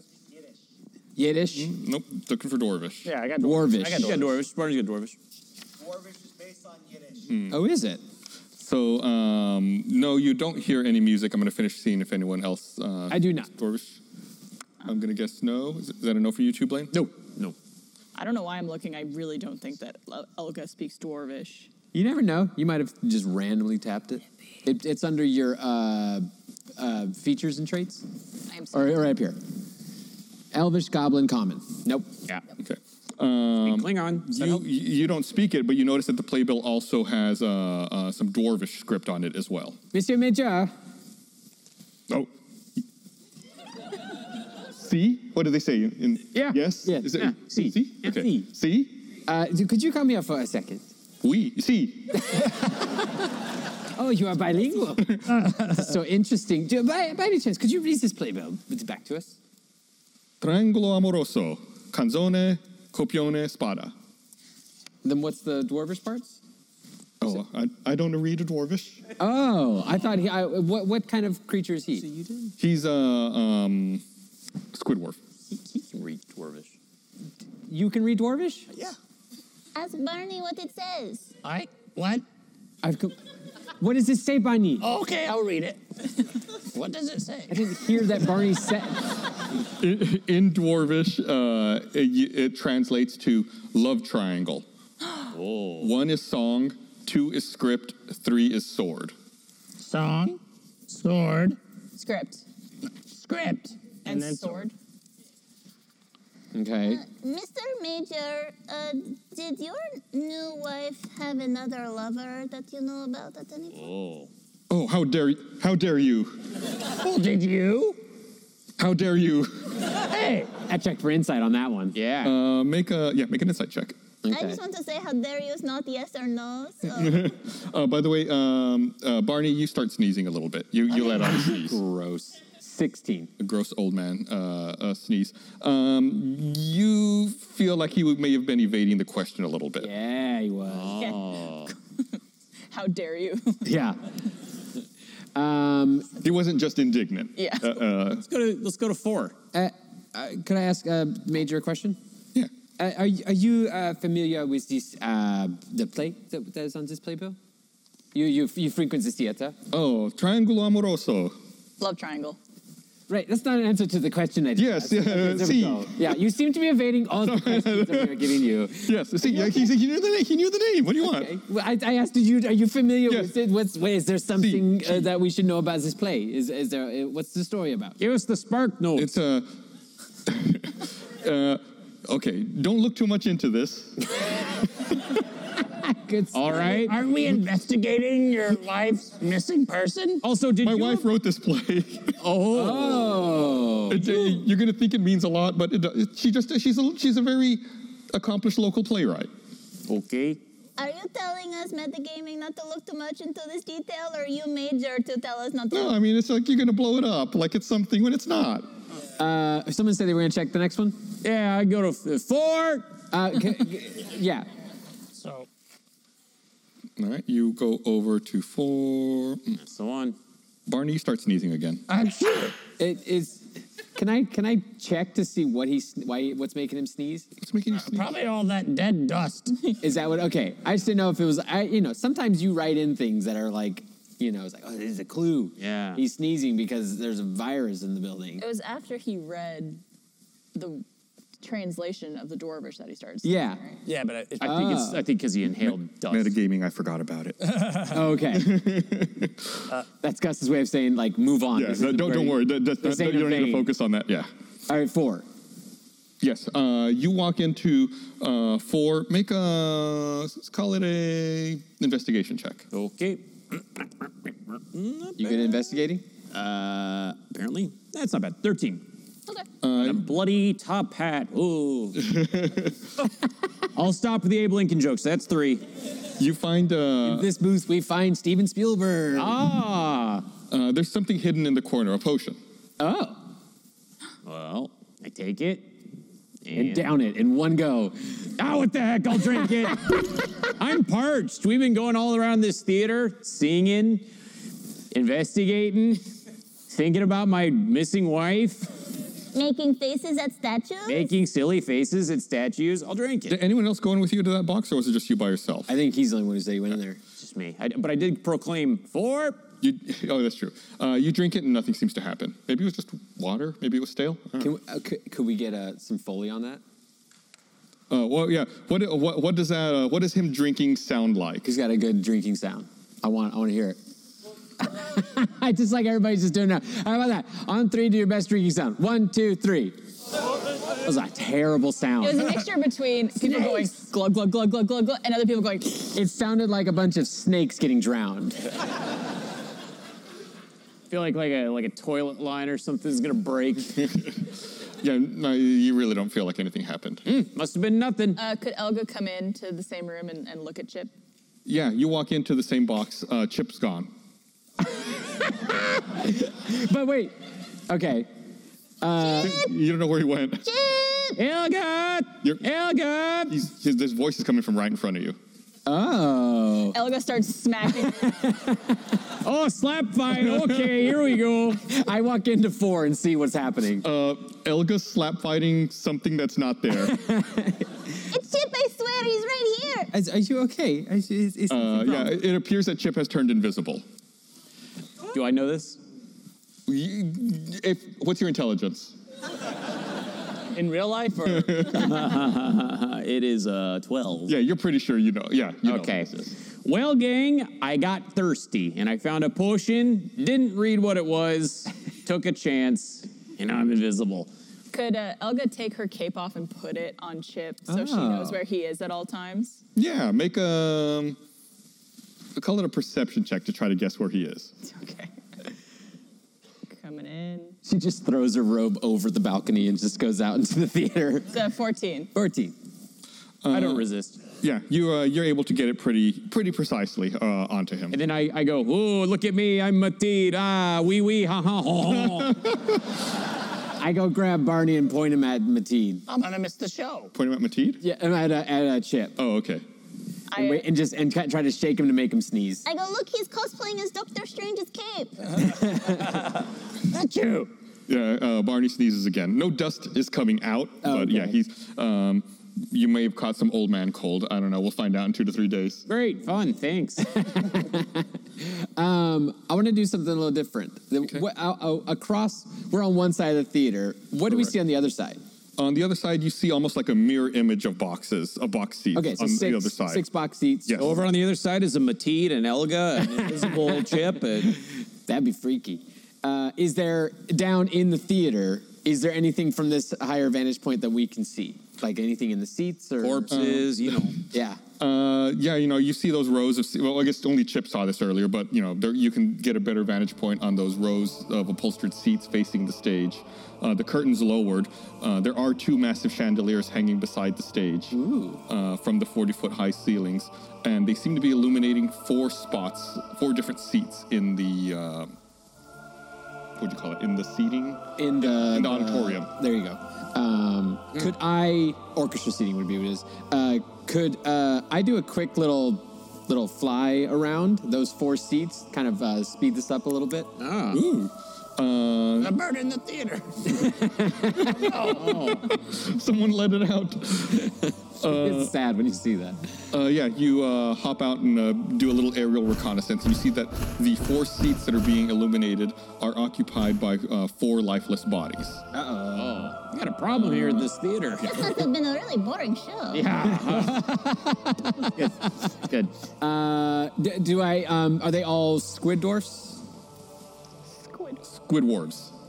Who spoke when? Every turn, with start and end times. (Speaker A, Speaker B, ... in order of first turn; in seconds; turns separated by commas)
Speaker A: 1.1-1.7, Speaker B: 1.5-3.1, Speaker C: 3.0-4.3, Speaker A: 3.4-4.1, Speaker D: 3.9-5.2, Speaker B: 7.2-7.6, Speaker A: 7.5-8.0, Speaker B: 8.6-14.0, Speaker A: 13.1-13.5, Speaker B: 14.8-17.0, Speaker A: 16.9-17.2, Speaker E: 18.1-21.7, Speaker A: 21.9-28.0, Speaker E: 28.5-29.1, Speaker A: 28.7-29.4, Speaker A: 30.5-32.1, Speaker B: 32.6-39.8, Speaker D: 33.6-34.6, Speaker A: 39.9-40.7, Speaker B: 44.7-49.0, Speaker A: 46.3-48.5, Speaker D: 47.2-48.2, Speaker A: 49.2-50.9, Speaker B: 51.2-52.3, Speaker A: 52.2-53.3, Speaker A: 54.0-59.4, Speaker C: 55.5-55.7, Speaker B: 60.4-63.9, Speaker A: 65.0-66.4, Speaker B: 67.2-69.0, Speaker A: 69.2-72.5, Speaker B: 72.6-74.0, Speaker B: 74.7-75.2, Speaker D: 75.5-76.7, Speaker A: 77.7-78.7, Speaker F: 79.7-81.3, Speaker C: 81.4-82.2, Speaker A: 82.8-83.2, Speaker A: 83.8-84.9, Speaker C: 84.8-87.6, Speaker A: 87.5-89.1, Speaker B: 89.8-94.6, Speaker D: 95.3-95.9, Speaker B: 95.8-99.1, Speaker C: 99.8-101.6, Speaker E: 102.0-102.4, Speaker C: 103.1-104.7, Speaker E: 104.0-104.7, Speaker A: 106.5-107.0, Speaker F: 106.8-113.8, Speaker D: 113.7-114.3, Speaker B: 114.7-116.4, Speaker C: 117.0-118.0, Speaker B: 118.8-119.8, Speaker C: 120.0-120.5, Speaker A: 120.6-122.0, Speaker D: 121.9-122.3, Speaker B: 122.2-123.9, Speaker A: 124.2-124.6, Speaker F: 124.3-127.3, Speaker B: 126.9-131.8, Speaker A: 130.9-133.3, Speaker B: 133.4-139.9, Speaker A: 139.8-141.0, Speaker D: 140.6-141.7, Speaker E: 142.7-143.7, Speaker A: 143.6-144.1, Speaker A: 145.3-146.1, Speaker B: 146.2-148.2, Speaker E: 147.3-147.8, Speaker D: 148.2-149.4, Speaker A: 149.5-152.0, Speaker A: 152.8-157.4, Speaker A: 158.1-159.6, Speaker B: 159.7-161.3, Speaker E: 161.8-162.4, Speaker A: 163.1-169.7, Speaker B: 164.6-166.2, Speaker B: 167.2-171.3, Speaker A: 171.0-177.9, Speaker B: 174.3-175.1, Speaker D: 178.0-179.1, Speaker B: 178.9-179.5, Speaker B: 180.2-184.2, Speaker A: 185.7-186.9, Speaker D: 186.3-186.9, Speaker C: 186.7-190.2, Speaker D: 190.2-191.1, Speaker B: 190.6-192.1, Speaker D: 192.2-193.5, Speaker A: 192.5-194.3, Speaker B: 193.9-199.3, Speaker D: 199.9-200.4, Speaker F: 200.8-205.9, Speaker B: 205.7-208.7, Speaker A: 209.2-211.0, Speaker D: 211.2-213.0, Speaker A: 213.1-214.5, Speaker C: 215.1-215.5, Speaker B: 217.0-219.6, Speaker D: 219.6-220.2, Speaker B: 220.7-221.8, Speaker C: 221.9-222.6, Speaker A: 222.8-227.3, Speaker B: 227.4-228.1, Speaker C: 227.8-229.7, Speaker A: 229.8-238.4, Speaker D: 235.6-236.0, Speaker E: 238.4-239.8, Speaker E: 240.5-240.8, Speaker E: 241.4-243.7, Speaker A: 243.2-243.6, Speaker C: 243.8-244.4, Speaker D: 244.4-246.3, Speaker A: 244.4-245.0, Speaker B: 245.6-249.5, Speaker A: 247.9-248.6, Speaker A: 250.0-253.7, Speaker B: 251.5-254.3, Speaker A: 254.7-255.2, Speaker B: 256.2-262.6, Speaker D: 262.7-265.8, Speaker A: 265.2-266.0, Speaker D: 266.3-268.9, Speaker B: 269.6-270.1, Speaker D: 269.8-272.0, Speaker B: 272.0-272.7, Speaker D: 273.7-275.6, Speaker B: 276.2-277.3, Speaker A: 277.0-279.4, Speaker D: 279.1-280.3, Speaker B: 280.5-282.4, Speaker A: 282.8-283.2, Speaker D: 284.2-285.7, Speaker D: 286.4-286.9, Speaker A: 286.5-288.3, Speaker D: 288.4-294.1, Speaker D: 294.9-296.1, Speaker D: 296.7-298.7, Speaker F: 299.3-301.1, Speaker D: 300.9-303.4, Speaker B: 303.3-305.7, Speaker A: 305.7-307.0, Speaker D: 307.2-309.4, Speaker B: 309.6-314.5, Speaker A: 314.4-316.6, Speaker B: 317.9-321.5, Speaker A: 321.4-323.8, Speaker A: 324.6-329.8, Speaker A: 330.8-332.5, Speaker E: 332.0-335.9, Speaker A: 335.9-338.5, Speaker D: 340.9-343.9, Speaker B: 344.8-347.0, Speaker D: 347.1-348.2, Speaker E: 348.2-350.9, Speaker B: 351.4-353.9, Speaker A: 355.0-357.1, Speaker A: 357.7-358.1, Speaker A: 358.8-359.4, Speaker F: 359.0-359.5, Speaker B: 359.2-360.4, Speaker F: 360.4-361.2, Speaker D: 361.1-363.4, Speaker B: 363.3-365.2, Speaker A: 365.6-366.8, Speaker E: 366.7-368.2, Speaker A: 368.1-368.6, Speaker D: 369.1-371.6, Speaker B: 370.1-370.9, Speaker A: 371.6-373.9, Speaker B: 373.8-377.1, Speaker A: 376.7-377.7, Speaker F: 378.1-379.9, Speaker A: 379.9-382.2, Speaker B: 381.5-383.8, Speaker D: 385.1-385.8, Speaker B: 386.7-388.9, Speaker C: 390.5-391.7, Speaker B: 391.3-391.9, Speaker D: 391.6-394.3, Speaker B: 394.3-396.3, Speaker D: 395.6-396.1, Speaker D: 396.6-404.3, Speaker E: 404.7-409.6, Speaker A: 407.7-408.4, Speaker B: 409.7-411.2, Speaker B: 412.4-414.5, Speaker E: 414.6-415.1, Speaker E: 416.7-417.6, Speaker A: 417.6-421.4, Speaker E: 421.3-422.1, Speaker A: 422.1-422.5, Speaker B: 423.4-423.9, Speaker D: 423.5-424.2, Speaker B: 424.4-427.9, Speaker D: 427.9-432.4, Speaker B: 431.9-432.8, Speaker A: 433.8-436.0, Speaker C: 436.1-437.1, Speaker B: 437.1-437.8, Speaker A: 437.8-439.2, Speaker B: 439.2-439.6, Speaker E: 440.3-440.7, Speaker A: 440.3-442.6, Speaker F: 442.6-445.6, Speaker C: 446.0-446.3, Speaker C: 446.9-447.5, Speaker B: 447.9-455.9, Speaker A: 450.8-451.4, Speaker D: 455.9-457.2, Speaker A: 457.1-465.2, Speaker B: 465.6-470.0, Speaker A: 468.9-470.9, Speaker B: 470.6-471.0, Speaker D: 470.8-474.6, Speaker A: 475.1-483.4, Speaker D: 483.0-484.1, Speaker B: 483.3-484.1, Speaker A: 484.3-484.6, Speaker B: 484.8-505.1, Speaker A: 497.9-498.4, Speaker B: 506.6-509.3, Speaker A: 508.0-520.3, Speaker D: 520.4-520.8, Speaker B: 520.7-522.4, Speaker C: 522.2-523.6, Speaker A: 523.6-524.5, Speaker B: 524.4-528.5, Speaker C: 524.5-525.3, Speaker D: 524.8-525.5, Speaker A: 528.0-529.6, Speaker B: 529.7-538.6, Speaker A: 538.7-539.5, Speaker D: 539.1-541.4, Speaker B: 540.1-540.6, Speaker F: 541.2-543.1, Speaker D: 542.9-544.0, Speaker A: 543.3-544.9, Speaker D: 544.9-545.9, Speaker A: 546.2-549.6, Speaker E: 550.8-551.2, Speaker B: 551.2-552.1